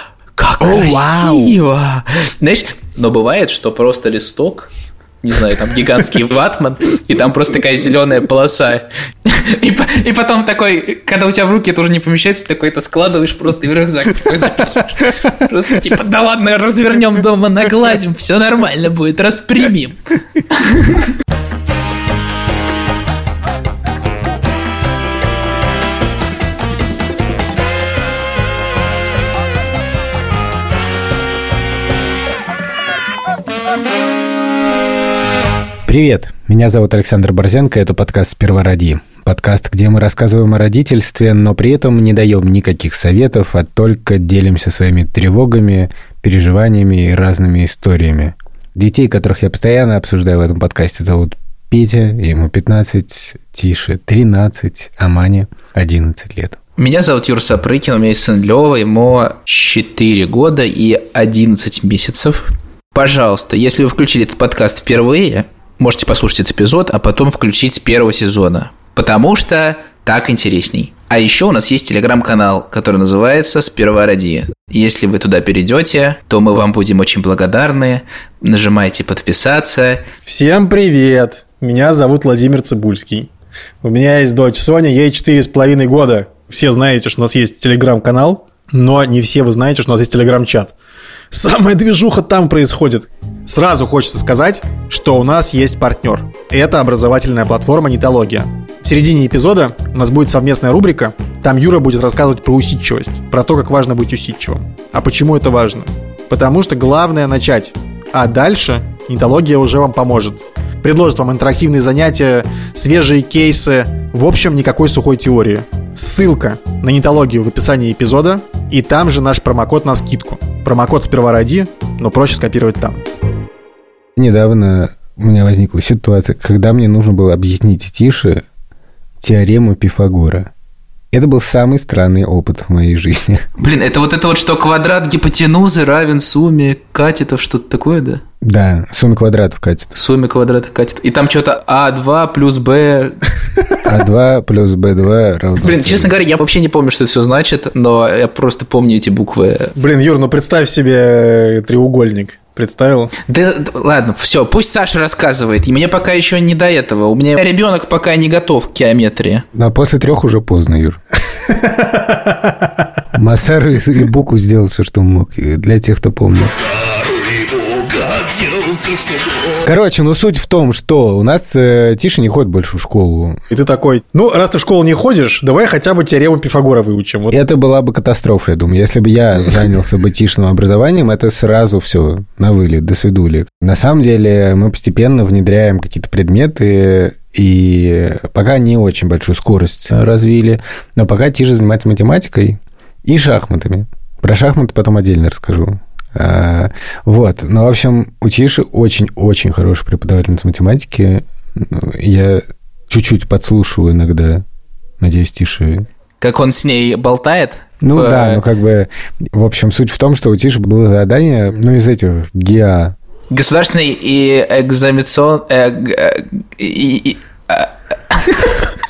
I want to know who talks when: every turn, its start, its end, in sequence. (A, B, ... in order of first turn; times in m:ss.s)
0:00.4-0:04.7 A
0:00.6-0:01.5 B
0:05.2-0:21.0 A
0:35.8-0:56.6 C
0:56.8-1:20.1 A
1:20.3-1:23.3 B
1:23.8-1:30.7 B
1:31.3-2:03.0 B
2:04.2-2:08.4 C
2:09.2-2:10.5 C
2:11.1-2:13.5 C
2:13.6-2:18.2 A
2:18.4-2:19.9 C
2:19.9-2:23.2 A
2:23.8-2:26.1 C
2:25.6-2:29.7 A
2:29.8-2:33.1 B
2:33.3-2:39.5 A
2:39.5-2:41.0 C
2:41.6-2:42.3 B
2:43.1-2:46.7 C
2:49.6-2:53.4 C
2:53.5-2:57.4 B
2:57.3-3:24.4 C
3:25.0-3:25.9 C
3:26.2-3:28.4 A
3:27.8-3:33.0 C
3:33.3-3:38.7 A